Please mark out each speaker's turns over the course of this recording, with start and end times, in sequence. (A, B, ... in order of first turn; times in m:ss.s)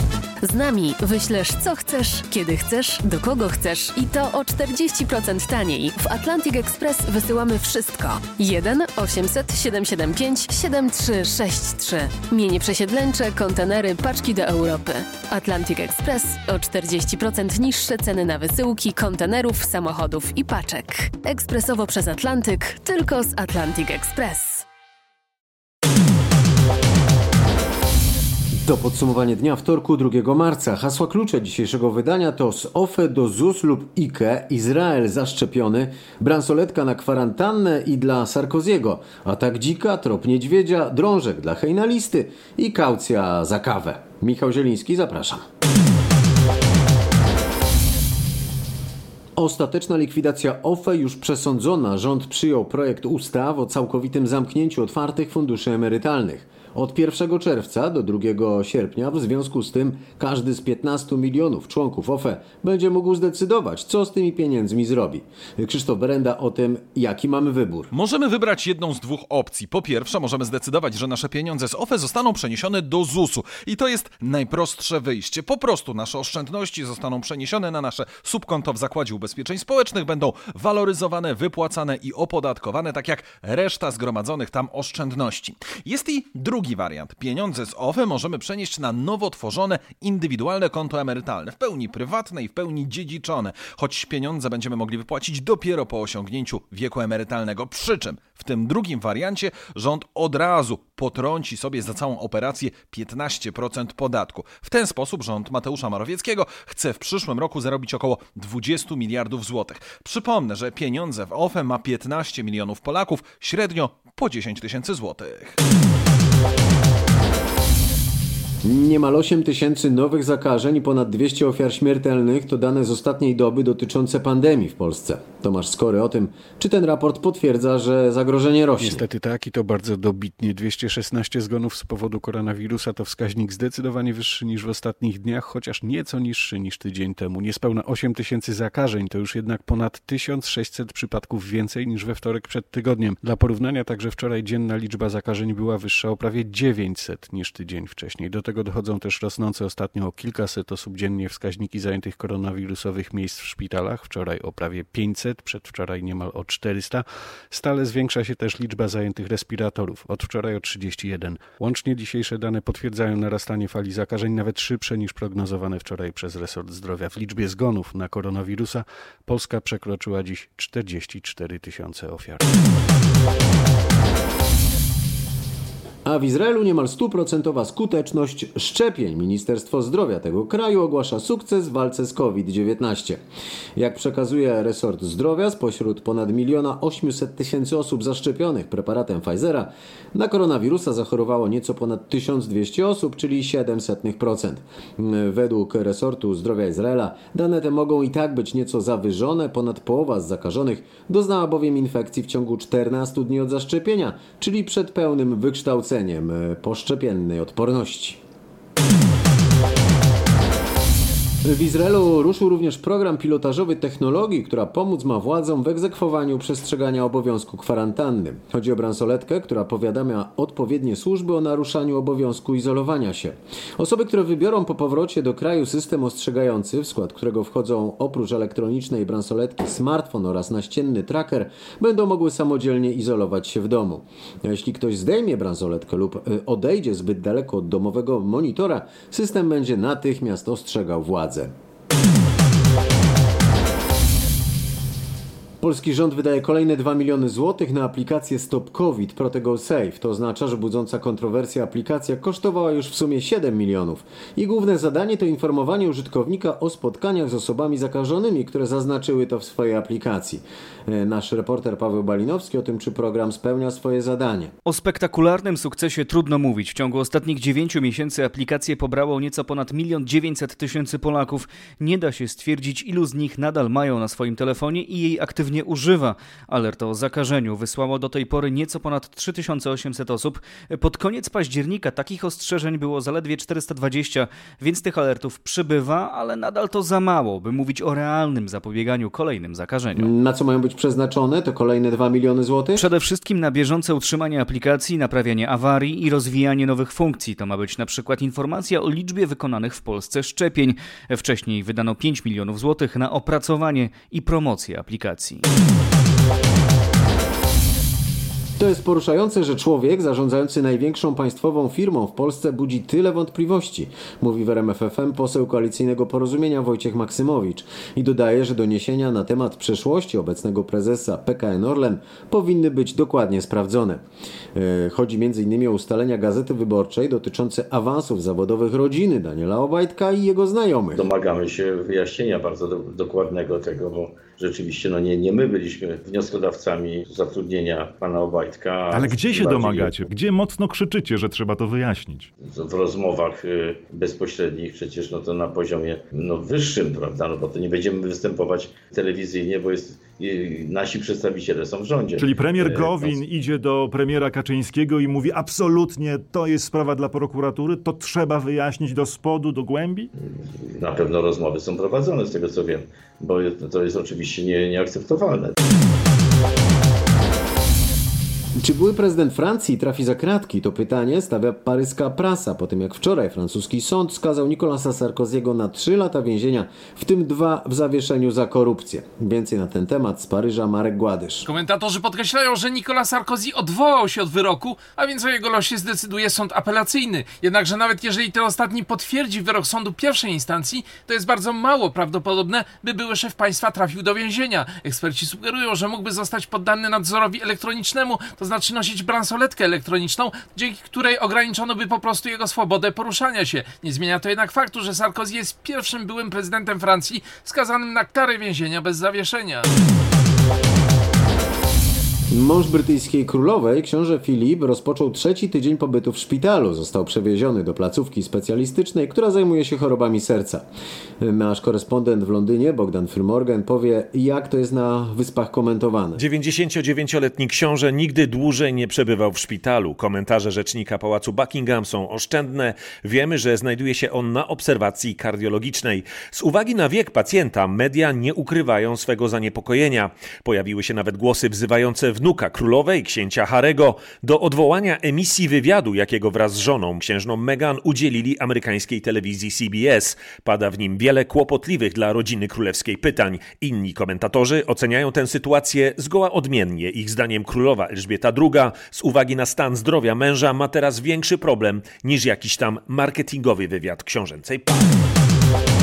0:00.4-0:24.6 A
0:28.6-0:45.4 B
0:49.4-1:07.9 B
1:07.9-1:55.6 C
1:58.6-2:09.0 B
2:08.8-2:52.4 D
2:56.0-3:03.2 B
3:03.8-3:28.2 B
3:31.4-4:01.5 B
4:05.6-4:24.5 B
4:24.6-4:50.1 E
4:50.0-4:52.9 B
4:52.8-5:05.5 E
5:08.6-5:24.0 B
5:24.6-5:31.1 B
5:30.9-5:40.0 F
5:39.0-5:42.3 G
5:42.4-5:53.2 F
5:52.2-6:00.0 G
6:00.8-6:05.5 F
6:08.6-6:21.5 B
6:21.4-6:49.7 H
6:52.3-7:00.7 B
7:01.2-7:06.2 B
7:06.2-7:45.1 I